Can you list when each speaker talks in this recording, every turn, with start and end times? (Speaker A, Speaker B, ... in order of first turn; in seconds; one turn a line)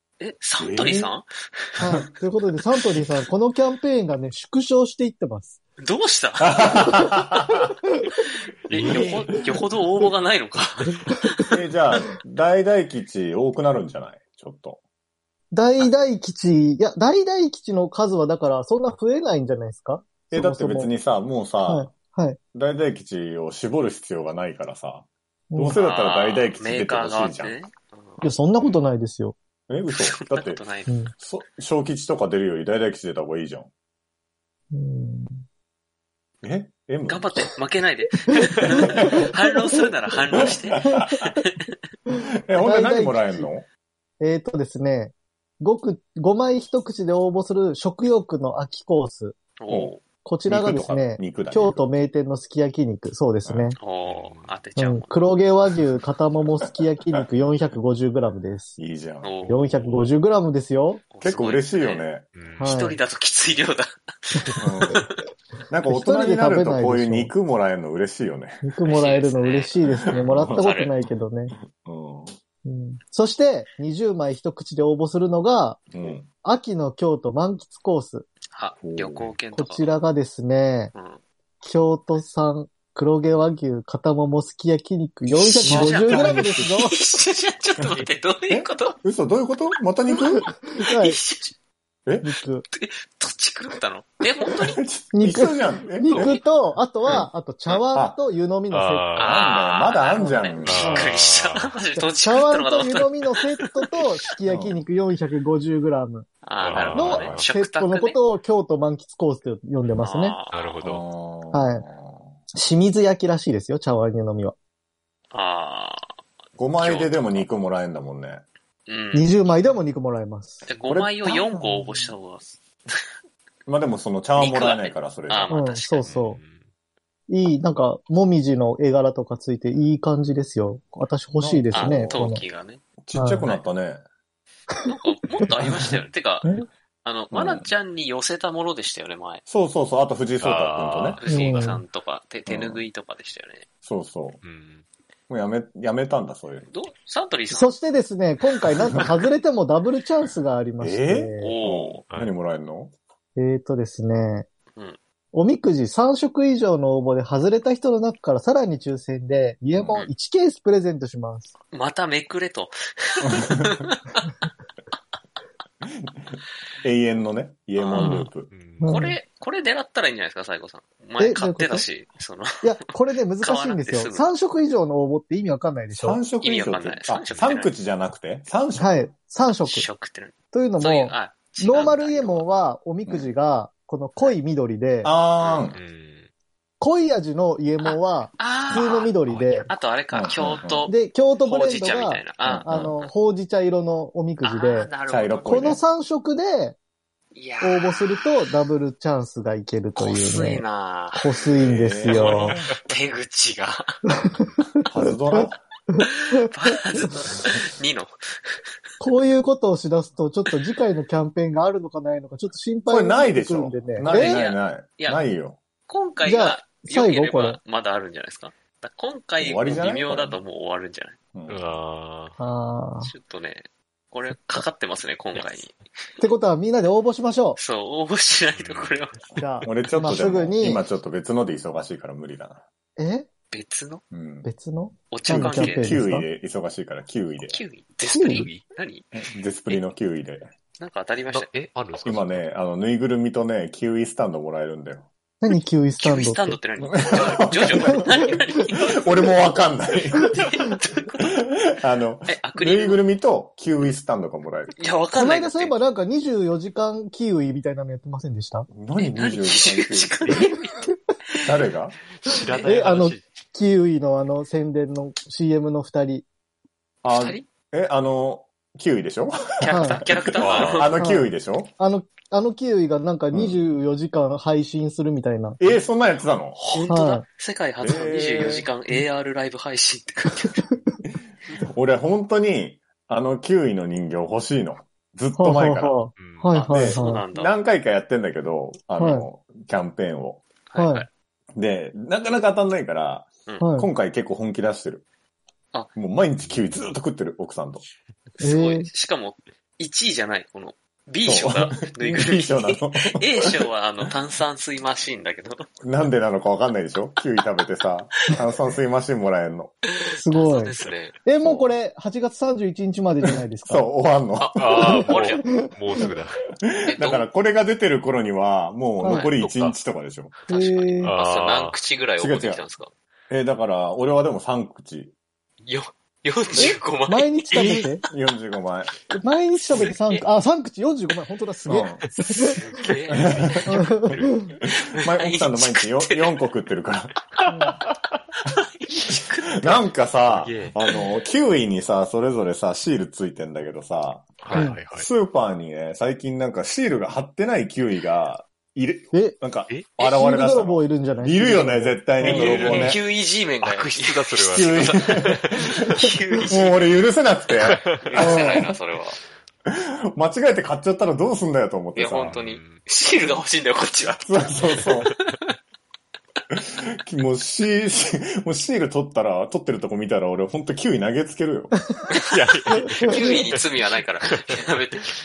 Speaker A: 0.2-2.0
Speaker B: 0.6-1.1
Speaker C: 1.8-5.6
Speaker A: 5.8-6.7
Speaker B: 6.4-7.7
Speaker C: 6.8-7.1
Speaker D: 8.7-9.4
Speaker A: 8.7-11.5
Speaker B: 8.9-9.1
Speaker C: 8.9-9.3
Speaker B: 11.5-14.8
Speaker C: 15.5-20.9
Speaker B: 20.3-21.9
Speaker C: 21.7-22.4
Speaker B: 22.5-27.6
Speaker C: 25.5-25.8
Speaker A: 25.8-28.8
Speaker C: 28.2-29.4
Speaker B: 29.7-30.6
Speaker A: 30.0-31.0
Speaker B: 31.2-33.7
Speaker C: 34.7-35.4
Speaker B: 36.4-37.4
Speaker A: 37.1-41.7
Speaker C: 38.3-39.0
Speaker B: 38.7-39.2
Speaker B: 40.3-41.3
Speaker C: 40.8-41.1
Speaker B: 42.5-43.7
Speaker C: 42.5-43.5
Speaker C: 44.2-49.4
Speaker A: 49.6-50.0
Speaker C: 50.2-53.8
Speaker B: 50.5-51.8
Speaker B: 53.5-53.7
Speaker A: 53.8-55.2
Speaker D: 54.0-54.6
Speaker C: 54.8-58.8
Speaker B: 58.8-59.4
Speaker A: 59.2-59.6
Speaker D: 59.4-59.7
Speaker C: 59.5-61.0
Speaker A: 61.1-62.1
Speaker B: 61.2-62.3
Speaker D: 62.4-62.8
Speaker C: 62.6-63.0
Speaker A: 62.6-65.0
Speaker C: 64.6-65.0
Speaker B: 64.6-65.1
Speaker B: 65.7-68.7
Speaker C: 65.9-67.3
Speaker C: 68.6-71.5
Speaker A: 68.8-71.0
Speaker B: 70.0-70.7
Speaker B: 71.7-72.3
Speaker C: 72.7-78.3
Speaker B: 75.9-76.3
Speaker A: 78.5-80.0
Speaker B: 78.8-79.3
Speaker C: 79.5-80.9
Speaker A: 80.9-81.2
Speaker C: 81.6-87.0
Speaker A: 85.3-89.0
Speaker B: 85.6-87.1
Speaker B: 88.5-90.5
Speaker C: 90.1-91.2
Speaker A: 90.4-91.6
Speaker C: 92.2-92.7
Speaker A: 92.7-94.8
Speaker B: 94.6-96.4
Speaker C: 95.1-99.2
Speaker A: 96.1-96.5
Speaker A: 97.1-97.8
Speaker B: 97.9-98.2
Speaker D: 98.7-99.4
Speaker A: 99.2-103.7
Speaker B: 99.2-101.1
Speaker C: 100.2-101.1
Speaker D: 100.6-101.6
Speaker C: 102.0-106.3
Speaker B: 104.5-104.8
Speaker A: 106.4-108.2
Speaker D: 106.6-107.5
Speaker B: 106.8-107.3
Speaker C: 106.9-110.4
Speaker A: 110.0-110.7
Speaker D: 110.5-111.0
Speaker B: 110.8-112.4
Speaker C: 111.5-111.8
Speaker C: 112.5-114.5
Speaker A: 115.3-116.1
Speaker B: 116.6-118.4
Speaker A: 116.8-117.5
Speaker A: 118.9-119.4
Speaker C: 119.1-120.7
Speaker A: 120.7-123.0
Speaker B: 120.9-121.4
Speaker C: 121.3-122.0
Speaker B: 123.7-125.5
Speaker A: 124.3-126.1
Speaker C: 125.5-126.4
Speaker D: 126.0-126.7
Speaker C: 127.3-132.4
Speaker B: 131.4-132.3
Speaker A: 131.7-132.8
Speaker B: 133.0-134.0
Speaker C: 133.2-133.5
Speaker A: 134.9-136.5
Speaker A: 137.0-139.4
Speaker B: 137.3-137.7
Speaker B: 139.5-141.2
Speaker D: 140.4-141.3
Speaker A: 141.2-143.7
Speaker C: 141.3-141.8
Speaker B: 142.5-142.8
Speaker B: 143.8-144.4
Speaker D: 144.4-144.8
Speaker B: 145.3-146.7
Speaker A: 146.7-147.8
Speaker C: 147.5-151.6
Speaker B: 150.8-152.9
Speaker A: 151.4-152.0
Speaker C: 153.4-154.5
Speaker C: 155.3-161.5
Speaker A: 161.7-163.9
Speaker B: 165.8-168.5
Speaker A: 167.8-168.3
Speaker C: 168.0-168.3
Speaker D: 168.5-169.0
Speaker C: 168.8-169.2
Speaker A: 168.8-174.3
Speaker C: 171.2-171.9
Speaker C: 172.6-176.2
Speaker B: 175.9-179.1
Speaker A: 176.4-177.7
Speaker C: 178.8-179.9
Speaker A: 179.6-182.5
Speaker C: 180.5-185.1
Speaker B: 185.0-185.8
Speaker A: 185.4-185.7
Speaker D: 185.7-186.3
Speaker C: 186.8-189.7
Speaker A: 187.8-193.1
Speaker B: 190.1-190.9
Speaker C: 190.9-194.9
Speaker B: 192.4-192.9
Speaker A: 194.4-195.6
Speaker B: 195.1-195.8
Speaker C: 195.4-196.8
Speaker A: 197.3-198.5
Speaker C: 197.6-202.5
Speaker A: 200.0-201.3
Speaker B: 201.5-202.7
Speaker A: 202.1-203.9
Speaker D: 202.3-202.6
Speaker B: 204.9-205.6
Speaker A: 206.0-208.2
Speaker C: 209.0-214.4
Speaker B: 212.9-215.6
Speaker A: 214.0-215.2
Speaker A: 215.9-221.2
Speaker C: 216.2-217.6
Speaker B: 219.4-220.4
Speaker B: 221.3-221.6
Speaker D: 221.5-222.4
Speaker C: 222.4-223.1
Speaker A: 223.0-225.8
Speaker D: 225.4-225.6
Speaker C: 226.2-227.6
Speaker A: 227.6-229.4
Speaker D: 228.6-229.0
Speaker C: 229.4-230.8
Speaker B: 229.7-232.6
Speaker C: 233.0-233.3
Speaker A: 233.5-234.0
Speaker B: 234.1-234.5
Speaker C: 234.4-236.3
Speaker A: 235.1-236.0
Speaker B: 235.3-237.6
Speaker A: 237.4-239.1
Speaker C: 238.1-238.5
Speaker D: 238.3-238.6
Speaker B: 239.1-240.5
Speaker A: 240.8-241.5
Speaker D: 241.3-242.5
Speaker B: 242.1-245.1
Speaker C: 245.4-246.6
Speaker A: 246.0-249.1
Speaker B: 246.8-248.4
Speaker B: 248.9-250.3
Speaker A: 250.1-251.3
Speaker B: 251.8-254.7
Speaker A: 252.3-253.0
Speaker A: 254.7-255.8
Speaker C: 255.2-258.7
Speaker B: 258.7-260.2
Speaker A: 259.0-260.8
Speaker B: 261.4-262.0
Speaker D: 262.2-263.3
Speaker A: 262.4-262.8
Speaker C: 262.6-266.3
Speaker A: 267.0-267.5
Speaker B: 267.0-271.7
Speaker A: 269.6-271.0
Speaker C: 269.7-270.0
Speaker D: 270.4-271.0
Speaker C: 271.0-275.6
Speaker B: 273.3-273.6
Speaker B: 275.6-276.6
Speaker A: 276.6-280.6
Speaker C: 276.8-277.2
Speaker B: 277.8-278.7
Speaker B: 281.7-286.0
Speaker C: 285.4-287.2
Speaker D: 286.2-286.6
Speaker A: 286.5-287.6
Speaker B: 286.6-290.4
Speaker C: 289.0-289.3
Speaker A: 290.7-291.1
Speaker C: 290.8-291.1
Speaker B: 291.6-295.0
Speaker C: 293.6-293.9
Speaker B: 295.9-297.8
Speaker A: 298.4-305.6
Speaker C: 298.4-298.9
Speaker B: 301.2-303.5
Speaker B: 305.8-309.7
Speaker C: 310.1-313.9
Speaker A: 310.2-311.2
Speaker B: 311.4-311.7
Speaker B: 313.6-315.2
Speaker A: 314.4-315.4
Speaker D: 314.6-316.4
Speaker C: 314.8-316.1
Speaker B: 316.7-320.3
Speaker A: 316.9-317.3
Speaker C: 319.0-319.3
Speaker D: 319.2-319.8
Speaker C: 320.5-321.1
Speaker A: 320.5-322.9
Speaker D: 320.9-321.8
Speaker B: 322.2-322.6
Speaker B: 323.3-325.1
Speaker A: 325.6-327.9
Speaker B: 326.5-326.8
Speaker C: 326.6-328.0
Speaker B: 327.5-328.9
Speaker C: 329.1-332.8
Speaker A: 329.8-330.2
Speaker B: 331.7-332.0
Speaker A: 332.6-333.4
Speaker D: 333.1-334.5
Speaker B: 333.3-333.7
Speaker C: 333.7-334.5
Speaker B: 335.0-337.1
Speaker A: 335.0-336.5
Speaker C: 337.5-337.8
Speaker A: 338.9-339.9
Speaker B: 339.6-353.0
Speaker D: 340.3-340.7
Speaker D: 344.4-345.1
Speaker C: 344.5-344.8
Speaker C: 349.1-349.4
Speaker D: 349.7-350.0
Speaker C: 350.0-352.9
Speaker D: 352.2-353.0
Speaker A: 352.3-356.9
Speaker D: 353.6-356.1
Speaker B: 354.5-355.7
Speaker B: 356.5-358.5
Speaker D: 357.7-358.5
Speaker A: 358.0-359.2
Speaker C: 358.2-358.7
Speaker B: 359.7-362.3
Speaker A: 361.9-364.6
Speaker D: 362.2-363.3
Speaker B: 364.2-365.1
Speaker B: 366.5-371.8
Speaker D: 372.3-373.6
Speaker A: 373.1-375.1